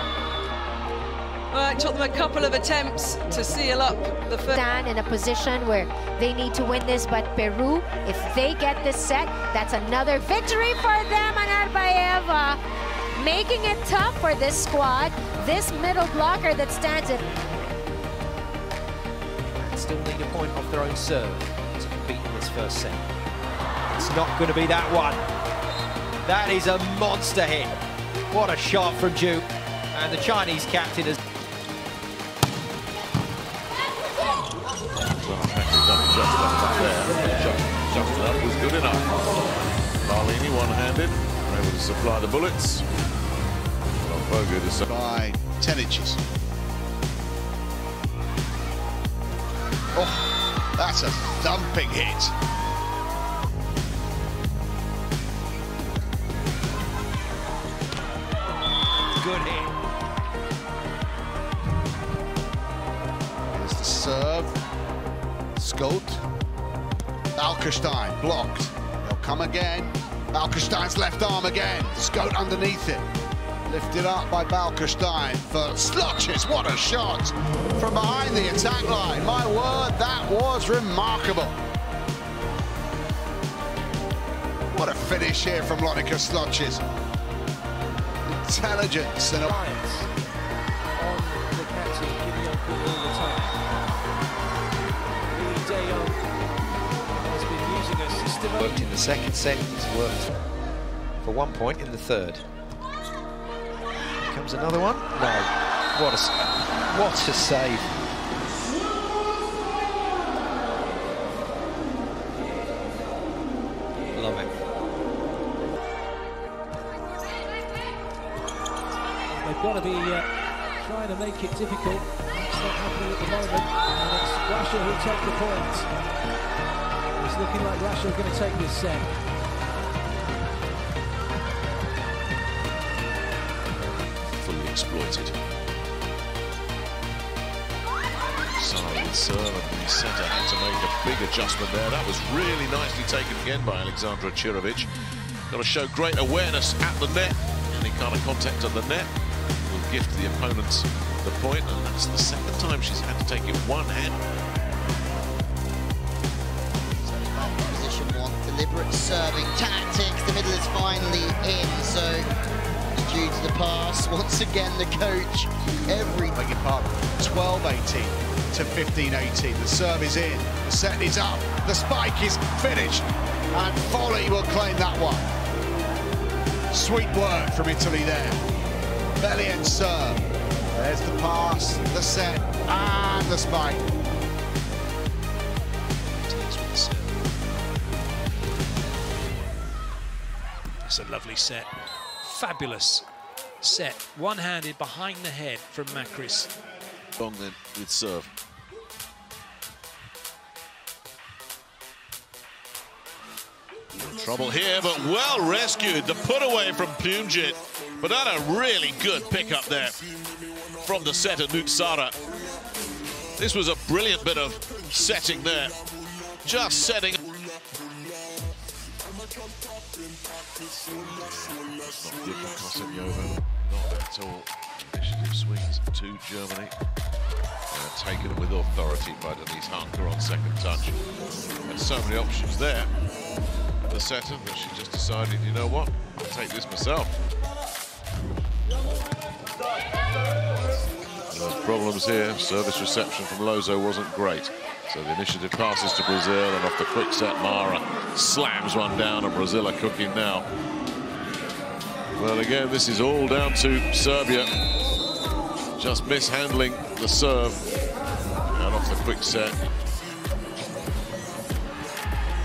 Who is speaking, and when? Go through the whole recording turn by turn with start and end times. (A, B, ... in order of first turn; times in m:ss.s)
0:01.5-0:04.7 A
0:04.6-0:12.6 B
0:13.2-0:17.3 B
0:19.6-0:23.0 C
0:23.9-0:25.2 C
0:26.2-0:27.7 C
0:28.3-0:31.2 C
0:35.2-0:39.5 D
0:40.0-0:42.8 D
0:44.0-0:44.9 D
0:44.9-0:46.2 E
0:50.0-0:52.3 E
0:59.2-0:59.7 C
1:03.5-1:04.6 E
1:05.6-1:06.2 E
1:07.4-1:13.0 E
1:13.7-1:21.6 E
1:24.7-1:26.8 E
1:28.3-1:29.6 E
1:29.4-1:30.1 F
1:31.0-1:33.6 F
1:35.3-1:36.2 F
1:37.1-1:38.9 F
1:38.6-1:40.3 C
1:41.2-1:42.4 C
1:44.2-1:47.9 C
1:54.2-1:54.5 C
1:59.3-2:05.9 F
2:07.2-2:09.2 F
2:14.3-2:15.4 D
2:18.6-2:24.9 D
2:25.5-2:29.1 D
2:29.7-2:34.2 D
2:36.9-2:42.3 G
2:42.9-2:46.4 G
2:46.3-2:55.3 E
2:56.7-2:58.4 E
2:59.2-3:00.2 E
3:00.8-3:03.8 E
3:06.2-3:07.2 F
3:10.8-3:11.7 F
3:12.2-3:13.0 F
3:13.6-3:16.5 F
3:17.2-3:18.3 D
3:23.9-3:30.0 D
3:30.8-3:32.2 D
3:33.4-3:35.8 D
3:36.4-3:37.2 D
3:41.4-3:46.8 D
3:47.7-3:51.0 D
3:51.6-3:52.9 D
3:53.9-3:57.2 D
4:01.3-4:10.5 D
4:12.2-4:14.5 D
4:15.8-4:17.7 D
4:18.5-4:19.6 D